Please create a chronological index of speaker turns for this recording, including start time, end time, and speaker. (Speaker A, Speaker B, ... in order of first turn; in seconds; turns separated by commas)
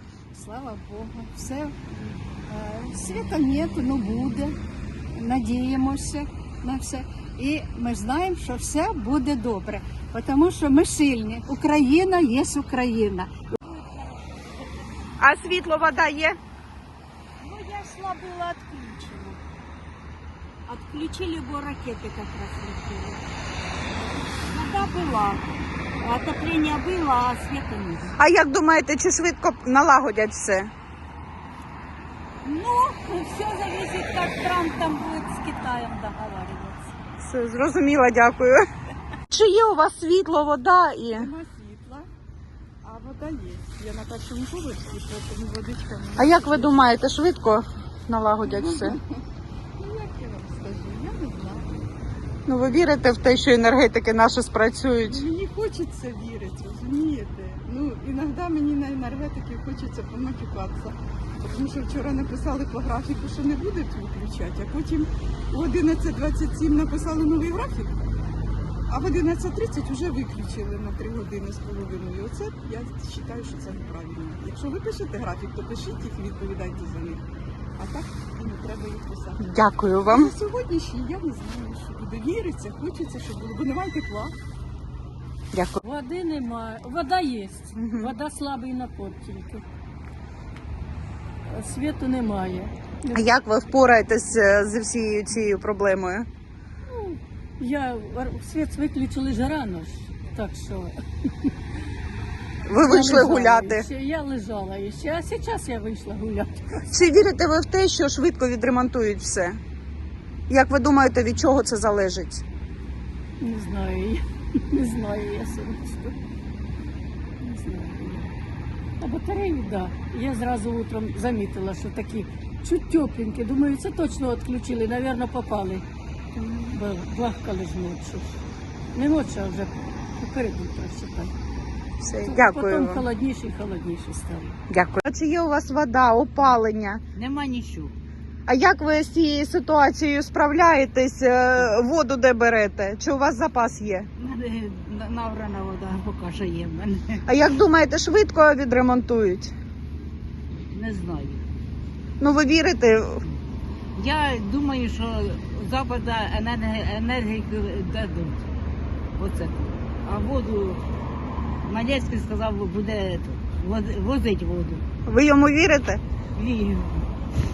Speaker A: 0.3-1.8, Speaker A: 5.2-11.7, Speaker B: 7.5-7.9, Speaker B: 11.8-12.2, Speaker A: 12.3-14.0, Speaker C: 15.2-16.4, Speaker A: 17.4-19.4, Speaker A: 20.7-23.1, Speaker A: 24.5-25.4, Speaker A: 26.0-28.1, Speaker C: 28.2-30.7, Speaker A: 32.4-36.9, Speaker C: 37.2-38.6, Speaker C: 39.3-41.3, Speaker B: 41.1-42.1, Speaker B: 42.8-46.9, Speaker C: 46.2-49.0, Speaker B: 48.4-49.2, Speaker B: 49.8-51.7, Speaker C: 52.5-55.2, Speaker B: 55.0-67.9, Speaker B: 68.9-77.2, Speaker B: 77.8-79.5, Speaker C: 79.4-80.3, Speaker B: 80.1-84.3, Speaker C: 85.5-85.8, Speaker D: 85.8-89.6, Speaker C: 87.8-88.1, Speaker D: 91.5-93.2, Speaker C: 93.1-96.3, Speaker D: 96.9-101.5, Speaker C: 102.7-103.9, Speaker D: 102.9-107.0, Speaker C: 106.9-109.6, Speaker C: 110.5-112.4, Speaker D: 113.4-116.2, Speaker D: 117.4-118.3, Speaker D: 119.0-125.8, Speaker D: 126.7-128.4, Speaker D: 128.9-131.3, Speaker C: 132.0-133.1, Speaker D: 132.3-134.6, Speaker C: 134.7-137.0, Speaker E: 137.2-137.9, Speaker C: 138.5-144.1, Speaker E: 144.2-147.2, Speaker C: 147.3-149.5, Speaker E: 150.7-151.5, Speaker C: 152.2-153.2, Speaker E: 154.0-158.5, Speaker E: 159.2-160.8, Speaker E: 161.7-164.8, Speaker C: 165.1-166.0, Speaker E: 166.3-167.1